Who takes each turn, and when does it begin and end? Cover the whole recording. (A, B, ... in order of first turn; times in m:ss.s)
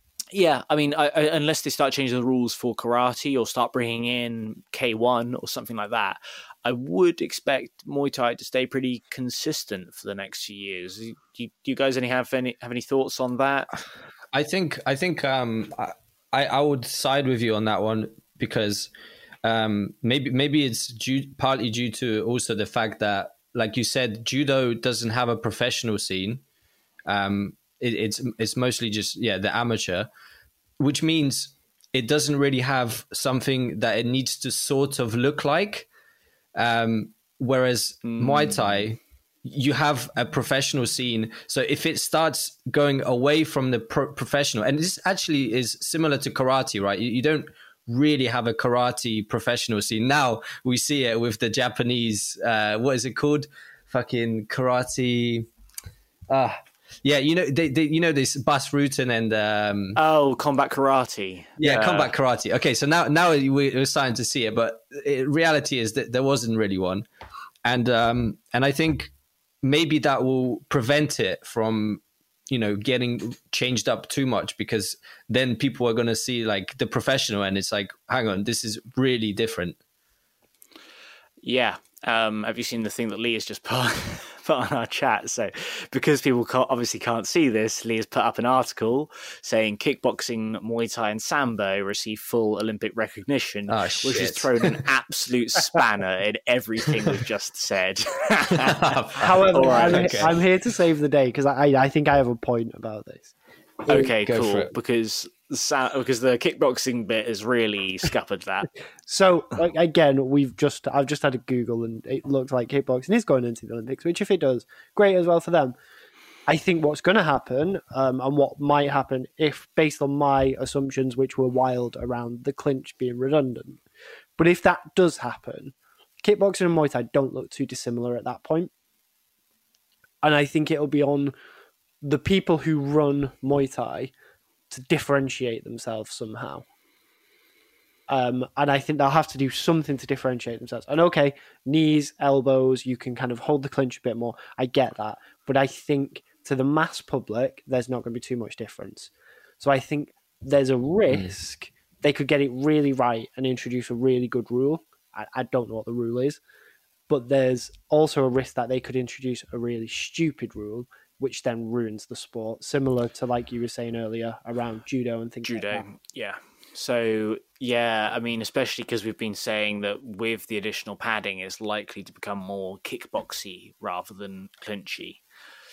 0:00.3-0:13.7 A
0:14.3-0:18.9 B
0:19.4-0:26.4 B
0:27.1-0:30.1 B
0:30.8-0:35.9 B
0:36.6-0:55.5 B
0:38.0-0:38.8 A
0:56.3-1:00.0 B
1:00.0-1:02.1 A
1:01.6-1:07.0 B
1:07.6-1:09.1 B
1:09.6-1:19.8 B
1:21.4-1:40.3 A
1:33.7-1:34.8 B
1:38.6-1:40.3 B
1:39.2-1:43.3 C
1:43.9-1:44.1 C
1:43.9-1:48.7 A
1:44.1-1:44.7 B
1:49.1-1:55.8 C
1:56.5-2:03.8 C
2:04.4-2:08.7 C
2:10.2-2:11.3 C
2:12.0-2:14.1 C
2:14.7-2:16.6 C
2:18.1-2:36.4 C
2:37.1-2:45.8 C
2:45.4-2:55.2 A